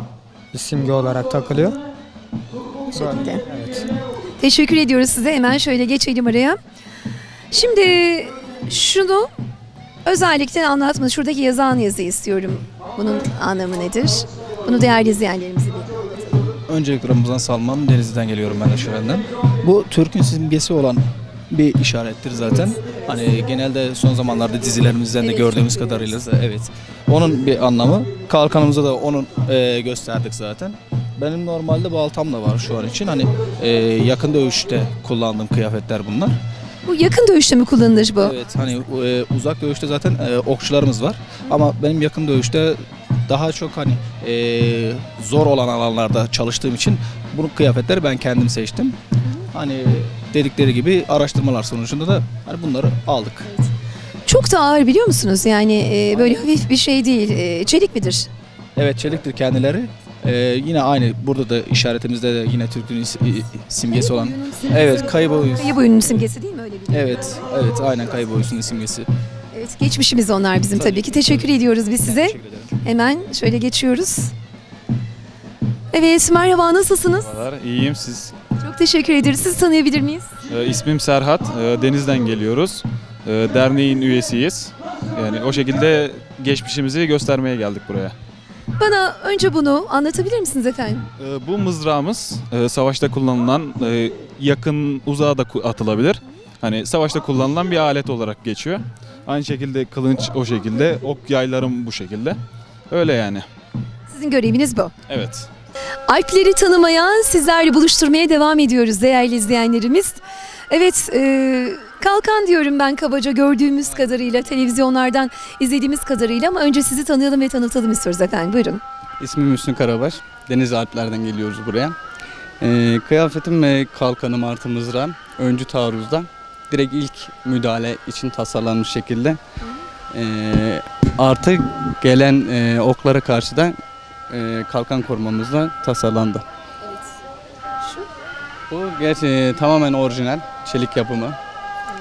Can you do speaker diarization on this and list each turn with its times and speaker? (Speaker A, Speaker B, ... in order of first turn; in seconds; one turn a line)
Speaker A: 0.5-1.8
Speaker B: 2.9-3.4
Speaker A: 2.9-3.9
Speaker B: 4.4-6.6
Speaker B: 7.5-9.3
Speaker B: 10.1-16.5
Speaker C: 16.7-36.4
Speaker B: 25.2-26.2
Speaker B: 36.9-38.4
Speaker C: 38.2-49.0
Speaker C: 49.5-53.5
Speaker B: 54.3-58.3
Speaker C: 58.8-66.2
Speaker B: 63.9-67.4
Speaker C: 66.9-69.1
Speaker B: 69.5-74.3
Speaker C: 70.8-71.2
Speaker C: 72.0-72.7
Speaker B: 75.9-77.3
Speaker D: 77.2-78.3
Speaker B: 78.6-80.3
Speaker D: 80.5-88.1
Speaker B: 88.8-91.0
Speaker D: 91.2-102.4
Speaker D: 102.9-103.5
Speaker B: 104.1-104.9
Speaker D: 105.1-105.5
Speaker B: 106.1-118.8
Speaker E: 113.8-114.5
Speaker E: 119.2-122.0
Speaker E: 122.6-129.4
Speaker E: 130.1-133.8
Speaker E: 134.3-136.4
Speaker E: 138.7-141.4